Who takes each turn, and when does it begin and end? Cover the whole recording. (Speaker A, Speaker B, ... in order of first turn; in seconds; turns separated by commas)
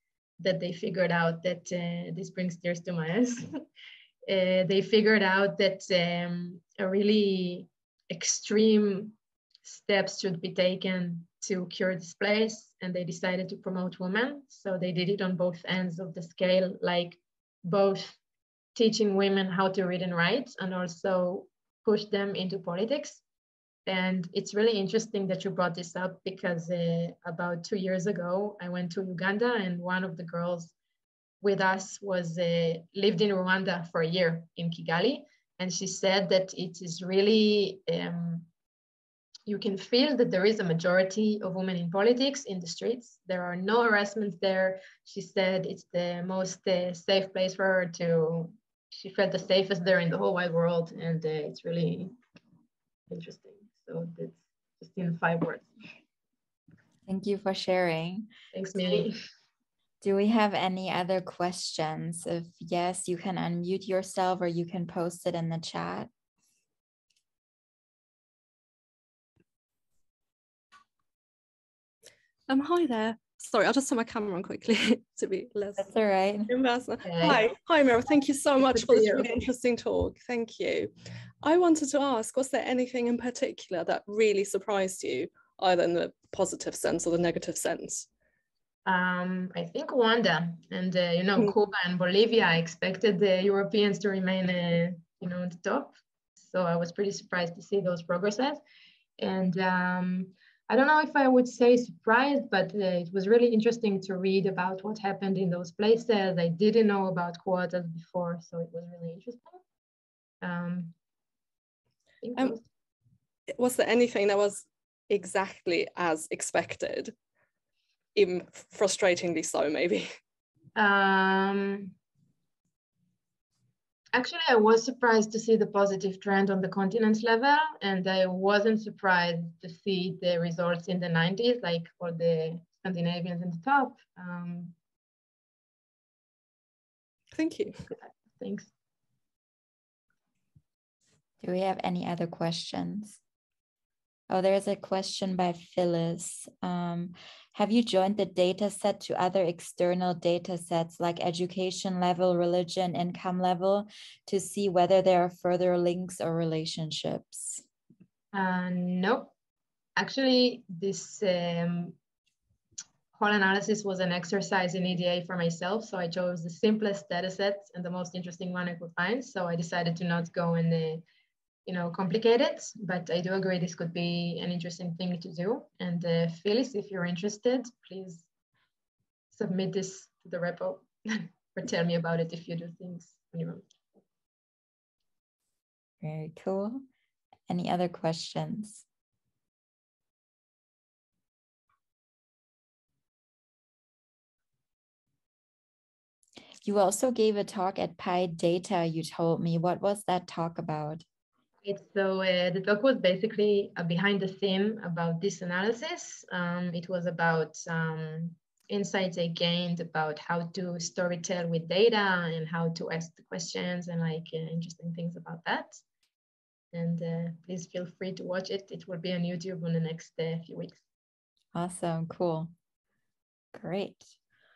Speaker A: 0.4-3.6, Speaker A: 4.3-18.2, Speaker A: 18.8-23.2, Speaker A: 23.9-30.7, Speaker A: 31.4-38.5, Speaker A: 39.5-52.2, Speaker A: 53.1-55.7, Speaker B: 57.1-58.3, Speaker A: 58.5-59.1, Speaker B: 60.0-66.1, Speaker C: 72.5-75.9, Speaker B: 75.8-76.5, Speaker C: 76.5-80.9, Speaker A: 77.0-77.4, Speaker A: 78.7-79.3, Speaker C: 81.4-88.1, Speaker A: 88.9-98.6, Speaker A: 99.2-109.6, Speaker A: 110.4-110.9, Speaker A: 112.2-112.7, Speaker C: 113.6-117.1, Speaker C: 118.2-120.1, Speaker A: 120.8-121.9, Speaker A: 124.1-134.7, Speaker C: 137.3-137.8, Speaker A: 137.9-138.7, Speaker B: 141.4-143.2, Speaker B: 144.3-157.6, Speaker A: 158.3-159.3, Speaker A: 160.0-162.0, Speaker A: 163.1-171.0, Speaker A: 171.7-178.3, Speaker A: 179.3-183.7, Speaker B: 186.0-186.8, Speaker B: 187.5-188.8, Speaker B: 196.6-201.0, Speaker A: 201.6-215.8, Speaker A: 216.7-220.8, Speaker B: 221.5-222.5, Speaker B: 223.5-224.1